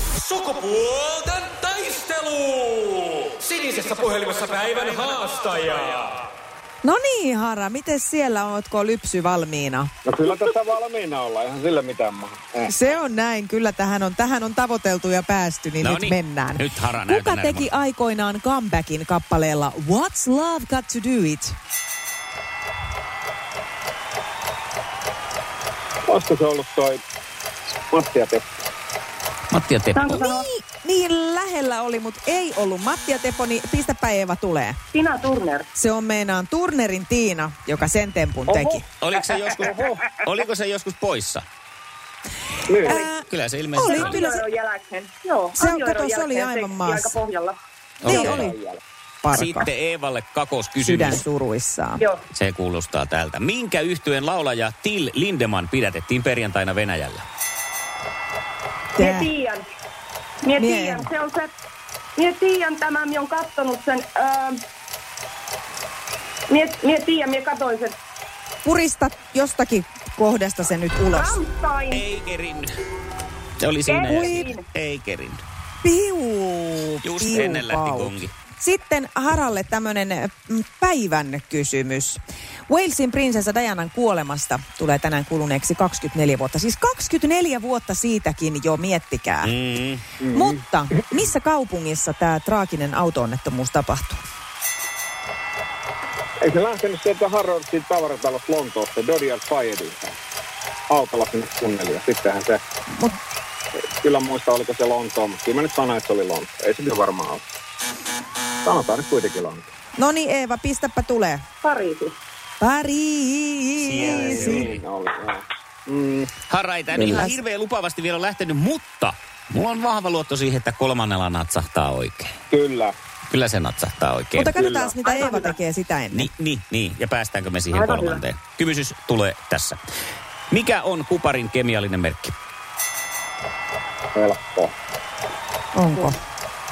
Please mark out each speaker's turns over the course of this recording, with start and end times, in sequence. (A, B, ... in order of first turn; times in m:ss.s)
0:00.2-0:06.1 A
0:06.8-0:09.9 B
0:10.0-0:12.7 C
0:12.7-0:21.6 B
0:15.8-0:17.7 D
0:26.1-0:27.0 C
0:27.9-0:28.4 C
0:29.5-0:30.2 D
0:29.9-0:30.4 E
0:30.2-0:34.8 B
0:34.9-0:35.7 E
0:35.7-0:38.8 B
0:38.5-0:38.8 C
0:39.0-0:41.4 D
0:39.6-0:40.1 C
0:42.7-0:43.0 C
0:42.8-0:43.1 E
0:42.8-0:43.2 B
0:43.3-0:44.2 D
0:43.8-0:44.4 B
0:43.8-0:47.6 E
0:45.6-0:47.1 B
0:48.0-0:48.5 D
0:48.0-0:48.5 B
0:48.0-0:48.8 C
0:49.2-0:49.7 B
0:49.3-0:51.2 D
0:50.8-0:52.0 B
0:52.3-0:57.2 D
0:59.0-0:59.6 E
0:59.0-0:59.3 B
1:00.4-1:01.5 E
1:00.6-1:01.1 B
1:02.2-1:04.6 E
1:06.5-1:07.9 E
1:08.6-1:11.4 B
1:11.1-1:12.0 E
1:11.9-1:12.7 D
1:13.6-1:15.4 D
1:13.9-1:14.6 E
1:14.1-1:14.4 B
1:15.8-1:29.5 B
1:17.0-1:18.3 D
1:29.4-1:30.0 D
1:30.2-1:30.6 C
1:30.3-1:34.2 B
1:36.4-1:40.1 C
1:40.9-1:42.6 C
1:44.0-1:47.4 C
1:48.6-1:49.6 C
1:50.0-1:51.4 B
1:51.6-1:52.2 E
1:52.6-1:54.7 B
1:53.8-1:54.8 D
1:54.0-1:56.3 C
1:56.5-2:02.3 D
1:56.9-1:57.3 B
2:02.5-2:02.9 C
2:03.3-2:04.5 D
2:04.3-2:06.3 B
2:04.5-2:04.9 C
2:05.0-2:05.5 E
2:06.1-2:09.8 D
2:07.7-2:08.2 E
2:10.5-2:12.3 D
2:14.1-2:14.7 C
2:15.7-2:16.2 B